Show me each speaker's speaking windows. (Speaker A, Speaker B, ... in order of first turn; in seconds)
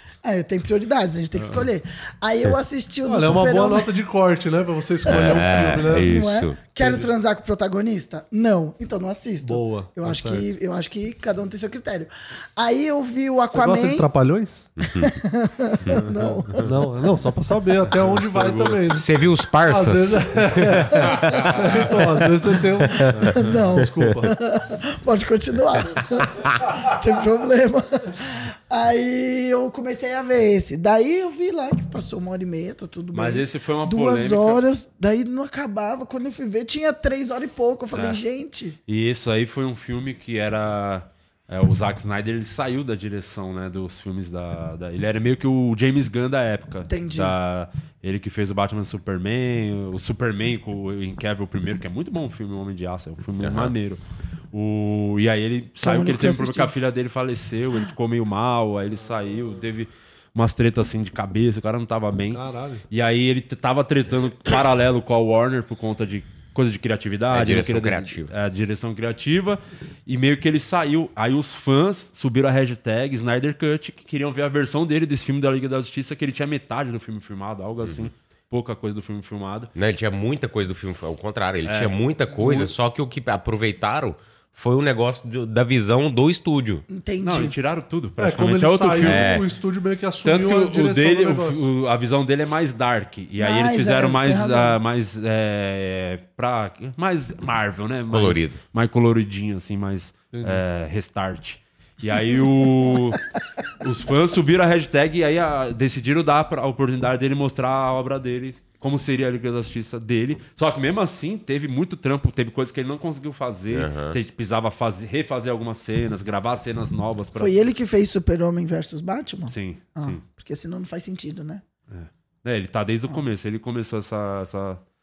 Speaker A: 0.2-3.9, 5.1-14.1, 15.0-16.6, 23.3-38.8, 46.9-47.3, 55.8-56.7, 86.9-87.5, 93.4-94.8, 117.3-121.6
Speaker B: 3.0-6.2, 6.8-7.1, 9.4-10.4, 13.5-14.7, 16.6-19.1, 19.6-24.3, 59.1-59.5, 62.3-62.8, 88.2-91.7, 100.3-100.6
Speaker C: 5.0-6.6, 14.8-15.1, 18.9-21.6, 53.4-53.7, 67.3-68.3, 77.8-78.1, 79.7-86.8, 89.0-89.5, 98.1-98.6, 113.7-114.2
Speaker D: 17.9-18.9, 33.1-34.6, 37.9-38.2, 38.9-54.0, 54.5-79.7, 81.6-81.9, 87.2-89.4, 90.2-103.2, 103.8-117.5, 119.5-120.2, 121.9-124.8